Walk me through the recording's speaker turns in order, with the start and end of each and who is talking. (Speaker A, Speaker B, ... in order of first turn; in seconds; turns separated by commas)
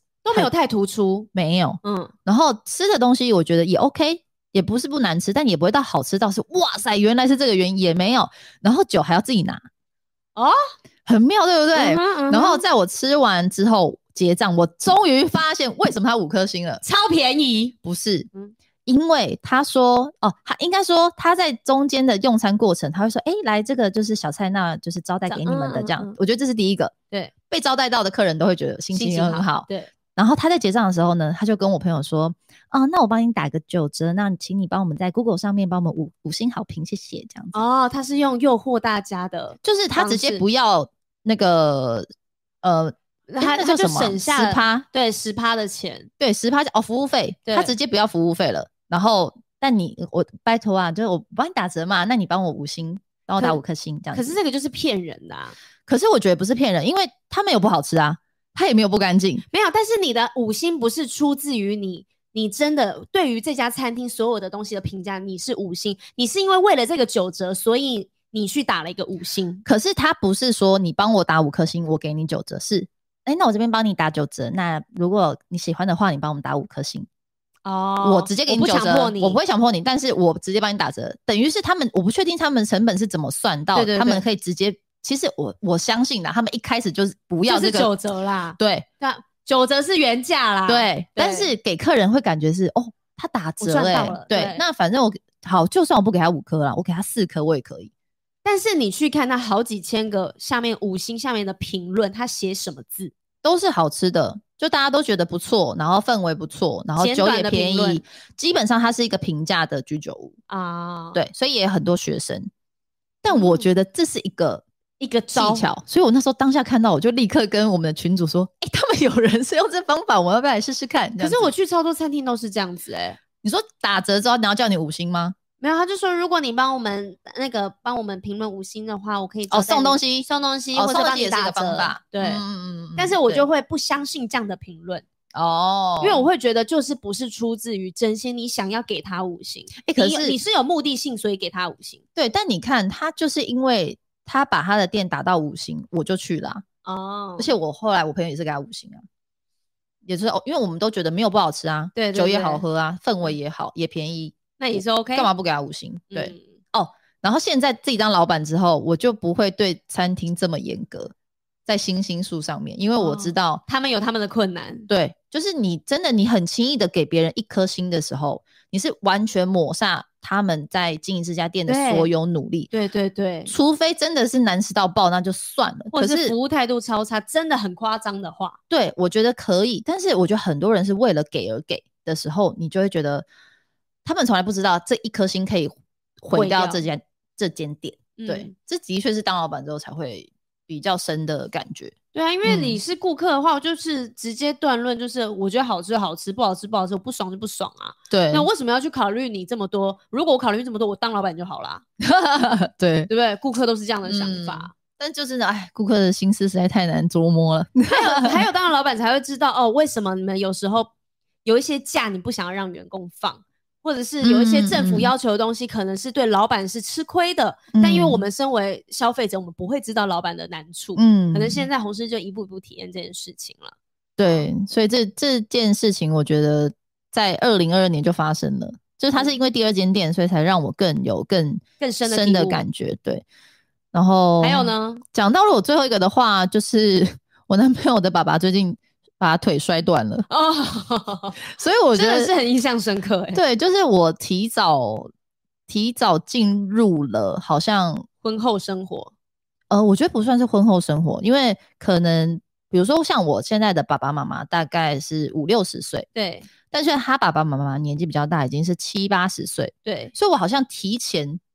Speaker A: 0.2-1.3, Speaker B: 1.3-9.6, Speaker A: 1.8-2.1, Speaker B: 11.1-16.8, Speaker A: 11.7-12.7, Speaker A: 16.8-17.8, Speaker B: 17.8-18.3, Speaker B: 18.9-26.9, Speaker A: 25.3-26.2, Speaker B: 27.5-37.5, Speaker A: 28.9-29.9, Speaker A: 37.5-40.4, Speaker B: 39.6-42.1, Speaker B: 42.6-44.9, Speaker A: 43.3-46.1, Speaker B: 46.2-54.4, Speaker A: 47.5-47.7, Speaker A: 54.1-55.5, Speaker B: 55.9-59.5, Speaker A: 59.5-69.6, Speaker B: 69.7-77.1, Speaker A: 77.7-79.4, Speaker B: 78.0-87.9, Speaker A: 83.7-84.2, Speaker A: 87.5-91.5, Speaker B: 88.6-88.9, Speaker B: 90.7-97.9, Speaker A: 93.6-94.6, Speaker A: 98.4-103.1, Speaker B: 103.4-110.3, Speaker A: 107.0-108.0, Speaker A: 110.5-111.2, Speaker B: 111.2-112.5, Speaker B: 113.2-114.6, Speaker A: 113.3-113.7, Speaker A: 115.0-115.7, Speaker B: 115.3-121.5, Speaker A: 121.2-123.2, Speaker B: 123.4-125.4, Speaker A: 125.6-132.4, Speaker B: 129.5-133.4, Speaker A: 133.0-135.1, Speaker B: 135.3-136.3, Speaker A: 136.0-142.0, Speaker B: 139.8-140.4, Speaker B: 142.2-146.6, Speaker A: 146.8-147.5, Speaker B: 147.4-149.0, Speaker B: 150.1-161.1, Speaker A: 151.9-152.6, Speaker A: 154.6-155.3, Speaker A: 156.1-156.6, Speaker B: 161.7-163.6, Speaker A: 163.0-164.9, Speaker B: 164.9-172.7, Speaker A: 171.7-172.1, Speaker A: 172.7-173.5, Speaker B: 173.5-176.3, Speaker A: 175.9-178.6, Speaker B: 178.7-183.3, Speaker B: 184.1-191.9, Speaker A: 186.3-186.9, Speaker A: 188.2-188.5, Speaker A: 192.1-201.8, Speaker B: 192.5-192.8, Speaker B: 198.1-198.5, Speaker B: 202.0-203.1, Speaker A: 203.1-204.7, Speaker B: 204.1-208.4, Speaker A: 207.9-210.9, Speaker A: 211.4-223.8, Speaker B: 214.2-215.1, Speaker B: 217.7-218.2, Speaker B: 221.0-221.7, Speaker B: 224.2-233.2, Speaker A: 231.8-232.7, Speaker B: 233.9-240.3, Speaker A: 234.4-235.0, Speaker A: 240.3-241.4, Speaker B: 241.5-242.3, Speaker A: 241.9-243.4, Speaker B: 243.3-245.1, Speaker B: 245.7-248.1, Speaker A: 248.2-249.1, Speaker B: 249.7-256.1, Speaker A: 256.1-256.5, Speaker B: 256.7-261.4, Speaker A: 259.9-260.1